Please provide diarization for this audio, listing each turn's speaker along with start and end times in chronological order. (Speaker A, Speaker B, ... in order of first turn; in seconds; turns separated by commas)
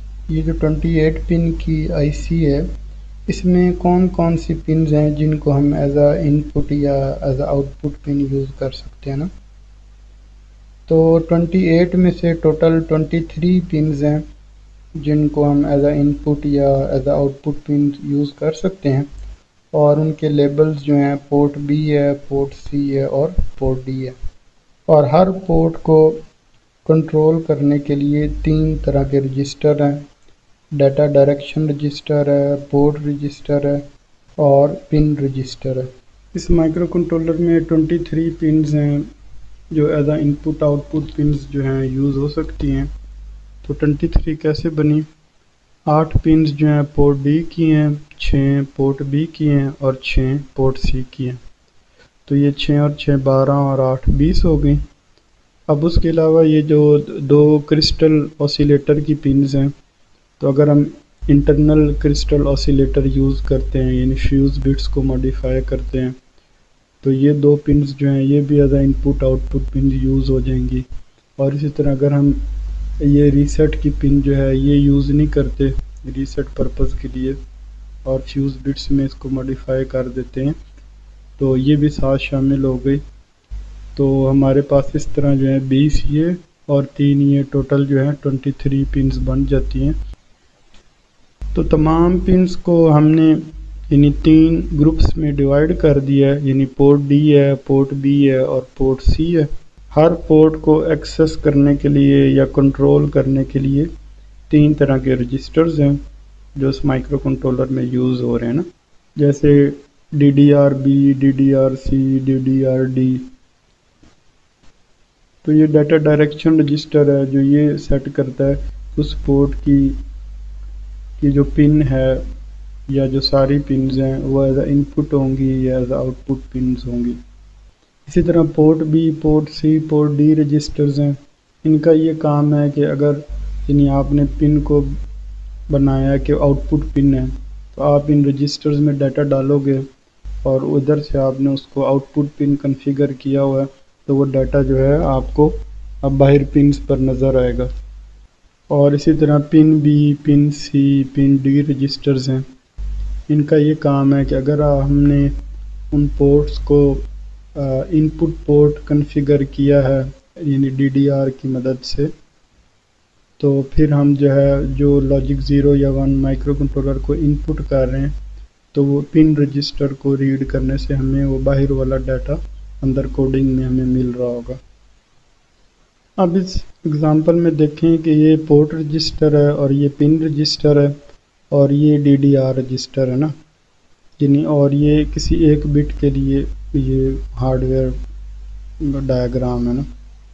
Speaker A: 0.3-2.7, Speaker A: 3.3-9.3, Speaker A: 10.9-14.2, Speaker A: 15.0-19.1, Speaker A: 19.7-24.1, Speaker A: 24.9-26.2, Speaker A: 26.8-30.1, Speaker A: 30.7-33.8, Speaker A: 34.4-39.1, Speaker A: 39.7-42.9, Speaker A: 43.6-45.0, Speaker A: 45.9-51.4, Speaker A: 52.3-54.8, Speaker A: 55.7-59.7, Speaker A: 60.4-66.2, Speaker A: 67.0-70.9, Speaker A: 71.4-72.4, Speaker A: 73.0-77.4, Speaker A: 78.0-80.5, Speaker A: 81.4-83.0, Speaker A: 84.0-89.9, Speaker A: 91.5-103.9, Speaker A: 104.5-106.0, Speaker A: 106.5-108.6, Speaker A: 109.2-113.3, Speaker A: 115.4-120.0, Speaker A: 121.2-122.2, Speaker A: 122.9-127.2, Speaker A: 128.1-134.9, Speaker A: 135.7-139.8, Speaker A: 140.4-147.7, Speaker A: 148.7-152.4, Speaker A: 153.3-155.3, Speaker A: 155.9-157.0, Speaker A: 157.6-162.1, Speaker A: 163.4-168.1, Speaker A: 168.7-174.6, Speaker A: 176.2-180.9, Speaker A: 181.5-183.3, Speaker A: 184.2-187.9, Speaker A: 188.8-189.8